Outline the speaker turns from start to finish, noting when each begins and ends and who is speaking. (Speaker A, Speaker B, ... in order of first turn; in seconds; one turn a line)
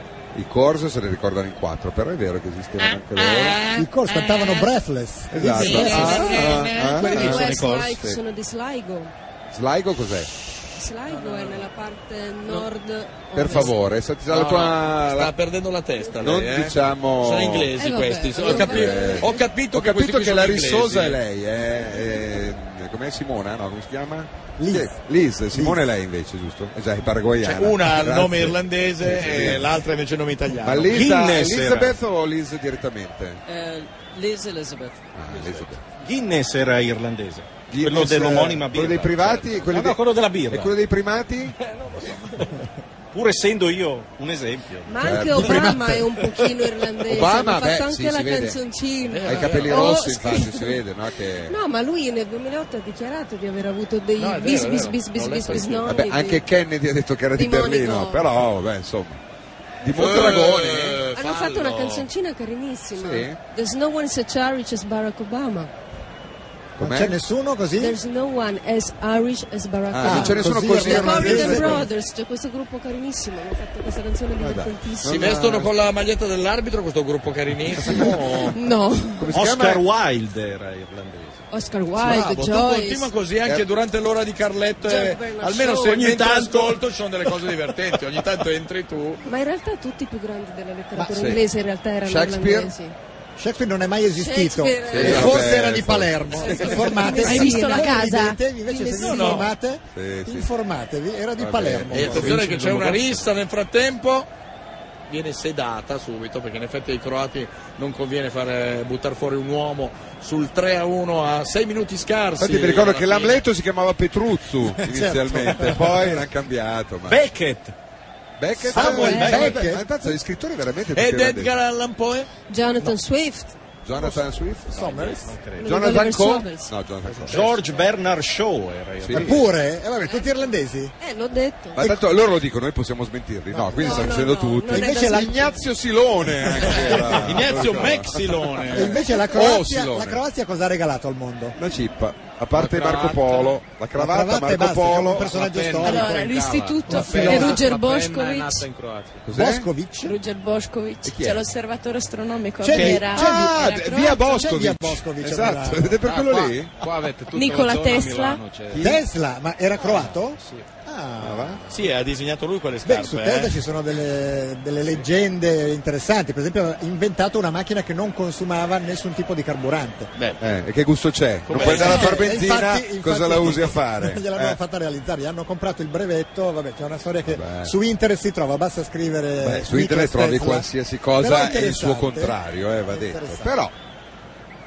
Speaker A: 0.3-3.6
Speaker B: 3.7-6.4
Speaker A: 5.3-8.2
Speaker C: 5.6-9.1
Speaker D: 5.8-6.2
Speaker E: 5.9-6.6
Speaker D: 7.0-7.8
Speaker A: 9.5-10.3
Speaker C: 10.7-13.8
Speaker E: 11.0-11.7
Speaker A: 13.3-15.3
Speaker D: 14.3-21.2
Speaker A: 16.2-17.7
Speaker C: 17.8-19.5
Speaker A: 18.5-29.7
Speaker B: 24.6-25.8
Speaker D: 27.4-31.0
Speaker A: 30.6-33.4
Speaker F: 30.9-32.0
Speaker E: 33.5-35.7
Speaker A: 35.1-35.8
Speaker F: 36.0-40.7
Speaker A: 37.7-41.5
Speaker D: 41.8-42.2
Speaker F: 43.1-45.6
Speaker C: 44.9-50.8
Speaker A: 45.0-46.0
Speaker B: 45.3-46.1
Speaker A: 47.0-48.6
Speaker D: 49.0-50.0
Speaker A: 49.2-51.6
Speaker C: 51.5-56.4
Speaker D: 54.2-56.1
Speaker A: 55.8-59.2
Speaker C: 57.4-58.3
Speaker A: 59.8-61.0
Speaker D: 59.9-62.1
Speaker C: 61.1-65.7
Speaker A: 62.9-63.4
Speaker A: 66.8-67.2
Speaker B: 66.8-68.0
Speaker C: 67.8-75.5
Speaker A: 69.9-71.9
Speaker B: 70.0-71.9
Speaker A: 74.4-75.7
Speaker D: 75.0-78.5
Speaker C: 77.8-79.3
Speaker A: 79.2-79.8
Speaker F: 79.3-81.4
Speaker C: 81.5-83.1
Speaker D: 82.0-89.2
Speaker C: 84.8-86.0
Speaker F: 85.8-86.8
Speaker C: 89.2-93.0
Speaker B: 91.0-91.3
Speaker A: 91.1-91.4
Speaker A: 92.0-92.7
Speaker B: 93.4-102.4
Speaker C: 94.1-95.6
Speaker A: 94.9-97.0
Speaker D: 95.0-95.3
Speaker C: 96.4-99.5
Speaker G: 97.1-98.4
Speaker D: 99.0-99.5
Speaker A: 99.9-100.5
Speaker A: 101.4-103.0
Speaker D: 101.9-104.3
Speaker H: 102.3-102.9
Speaker D: 105.1-113.4
Speaker A: 112.4-117.2
Speaker B: 114.8-116.2
Speaker F: 117.1-117.7
Speaker A: 118.4-121.5
Speaker B: 118.6-119.9
Speaker C: 118.7-119.6
Speaker F: 118.7-119.5
Speaker D: 120.9-122.3
Speaker C: 122.5-123.5
Speaker A: 123.8-127.4
Speaker B: 123.9-125.3
Speaker F: 124.8-125.8
Speaker C: 125.6-126.7
Speaker F: 127.1-129.4
Speaker D: 127.3-127.8
Speaker A: 129.0-129.4
Speaker B: 129.1-130.9
Speaker C: 131.0-131.8
Speaker A: 131.8-140.2
Speaker B: 131.8-132.0
Speaker B: 133.5-135.6
Speaker C: 133.8-135.6
Speaker B: 136.4-137.6
Speaker D: 136.9-139.0
Speaker B: 138.7-141.6
Speaker A: 141.6-145.3
Speaker H: 142.5-143.5
Speaker B: 143.9-146.3
Speaker H: 145.1-149.2
Speaker G: 145.8-148.6
Speaker B: 146.9-147.7
Speaker A: 147.1-147.4
Speaker A: 149.2-149.7
Speaker B: 149.3-150.2
Speaker G: 150.0-154.3
Speaker A: 151.0-151.4
Speaker B: 152.6-156.0
Speaker A: 152.6-156.7
Speaker H: 156.0-159.0
Speaker G: 157.3-158.4
Speaker A: 158.7-159.0
Speaker B: 158.7-161.6
Speaker H: 159.8-160.7
Speaker A: 161.2-161.6
Speaker D: 161.7-163.6
Speaker B: 162.8-170.1
Speaker D: 170.1-170.4
Speaker A: 170.4-174.6
Speaker D: 171.4-172.2
Speaker B: 171.5-183.6
Speaker A: 177.2-177.7
Speaker A: 179.4-183.7